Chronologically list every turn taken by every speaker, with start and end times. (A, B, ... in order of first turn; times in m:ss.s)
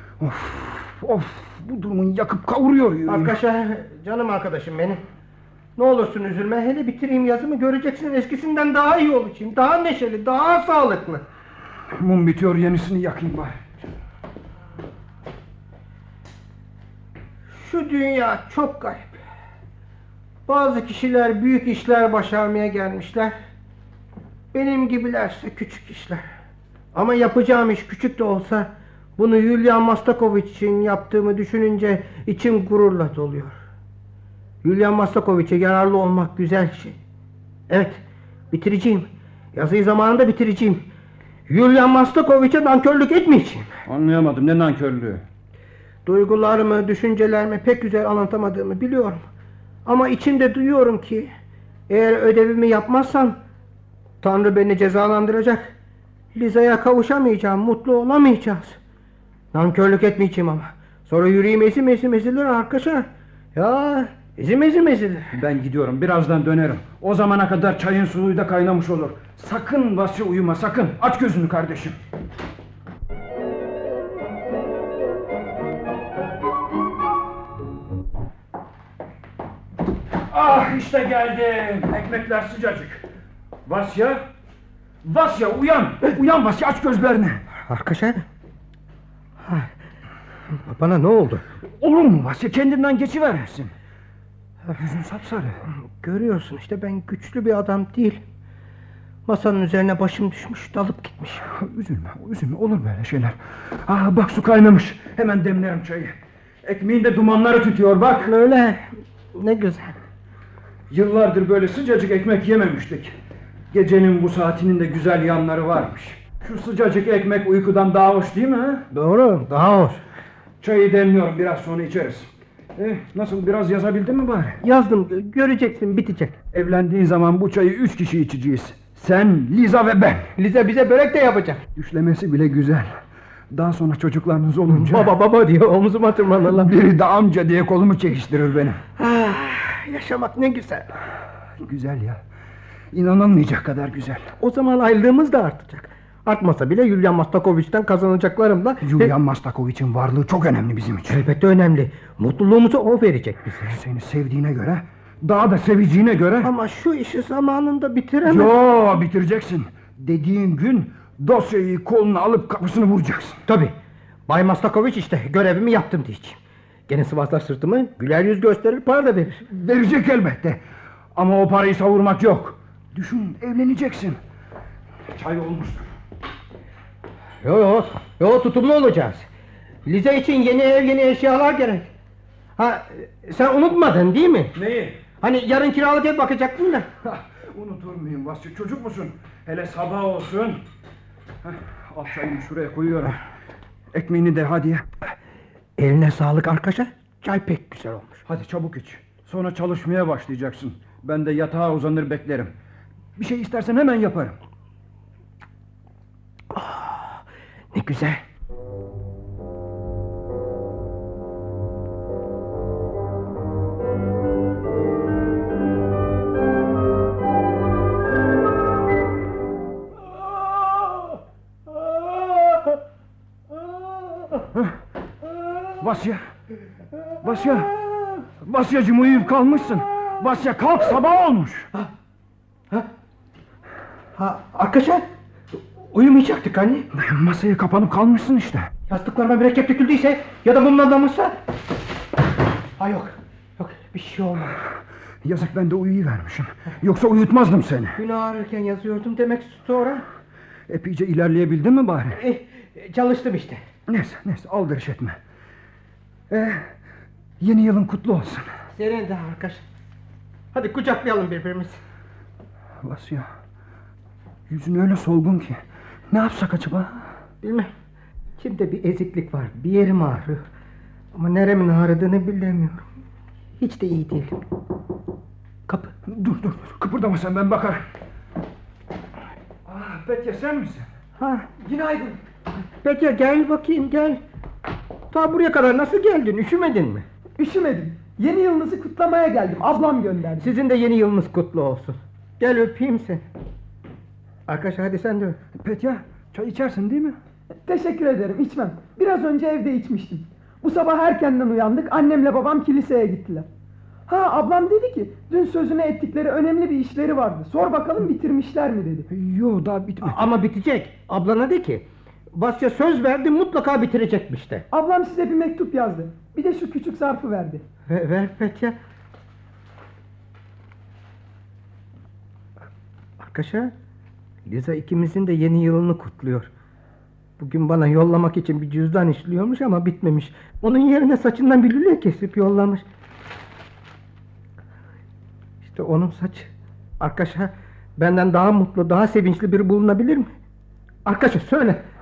0:00.2-0:03.4 A
0:03.1-0:05.0 B
0:05.8-0:11.2 B
0:11.9-0:13.6 A
0:17.5-0:19.2 B
0:20.5-0:23.3 B
0:24.5-0:26.2 B
0:26.9-0:33.6 B
0:34.6-0:37.0 B
0:37.7-0:38.0 B
0:38.5-0:40.9 B
0:41.5-0:43.7 B
0:43.8-0:45.2 A
0:46.0-0:49.2 B
0:49.8-0:51.3 B
0:51.9-0:53.4 B
0:54.2-0:55.7 B
0:56.3-0:58.8 B
0:59.5-1:05.3 B
1:05.3-1:12.0 A
1:20.3-1:23.0 A
1:23.6-1:24.2 A
1:25.0-1:27.4 A
1:27.6-1:28.2 B
1:29.4-1:29.7 B
1:30.5-1:31.4 B
1:31.8-1:33.7 A
1:34.8-1:35.6 A
1:36.0-1:38.2 B
1:39.3-1:41.4 B
1:41.5-1:48.3 A
1:48.2-1:50.0 B
1:50.9-1:53.1 A
1:53.7-1:58.8 A
1:58.9-2:00.0 B
2:00.6-2:04.6 A
2:04.6-2:06.4 B
2:06.5-2:10.3 A
2:10.4-2:11.6 B
2:11.7-2:12.9 A
2:13.5-2:15.1 A
2:14.7-2:16.7 B
2:16.5-2:18.8 A
2:19.0-2:20.9 B
2:21.6-2:22.2 A
2:22.9-2:24.3 A
2:24.4-2:29.1 B
2:28.8-2:31.2 A
2:31.1-2:33.8 B
2:33.7-2:36.5 A
2:36.4-2:38.5 B
2:38.2-2:43.4 A
2:43.5-2:43.7 B
2:44.3-2:49.4 B
2:49.5-2:50.6 A
2:51.1-2:54.2 A
2:55.1-2:55.9 A
2:57.4-2:59.3 B
2:59.8-3:01.9 B
3:02.6-3:04.5 B
3:04.5-3:05.0 A
3:05.2-3:06.9 B
3:07.0-3:10.6 A
3:11.4-3:13.2 A
3:13.9-3:14.9 A
3:15.8-3:18.2 B
3:18.2-3:22.5 A
3:23.2-3:24.4 A
3:26.5-3:27.2 B
3:27.7-3:28.2 B
3:42.1-3:42.7 B
3:45.8-3:46.3 A
3:47.2-3:47.7 A
3:48.4-3:51.7 A
3:54.2-3:55.0 B
3:55.9-3:56.9 B
3:56.9-3:58.7 A
3:58.9-4:01.4 B
4:02.8-4:04.6 B
4:05.2-4:08.0 A
4:08.0-4:10.0 B
4:10.7-4:12.2 A
4:12.1-4:13.6 B
4:13.9-4:15.2 A
4:16.3-4:16.7 A
4:17.4-4:18.5 A
4:18.7-4:19.6 B
4:20.5-4:21.8 B
4:22.8-4:23.3 A
4:24.5-4:27.1 A
4:27.4-4:27.7 B
4:28.4-4:30.4 B
4:31.1-4:32.8 B
4:33.6-4:34.4 B
4:36.0-4:37.8 A
4:39.6-4:40.9 A
4:41.2-4:41.5 B
4:41.6-4:42.2 C
4:42.8-4:44.2 B
4:45.1-4:47.0 B
4:47.4-4:50.5 C
4:50.4-4:53.2 B
4:54.5-4:55.4 B
4:55.6-4:57.2 A
4:57.6-5:03.4 C
5:04.1-5:09.1 C
5:09.1-5:10.3 A
5:10.0-5:14.6 B
5:14.7-5:17.6 C
5:17.9-5:18.8 B
5:23.2-5:23.7 B
5:24.4-5:26.5 B
5:27.4-5:32.8 B
5:35.6-5:40.3 B
5:41.0-5:41.8 B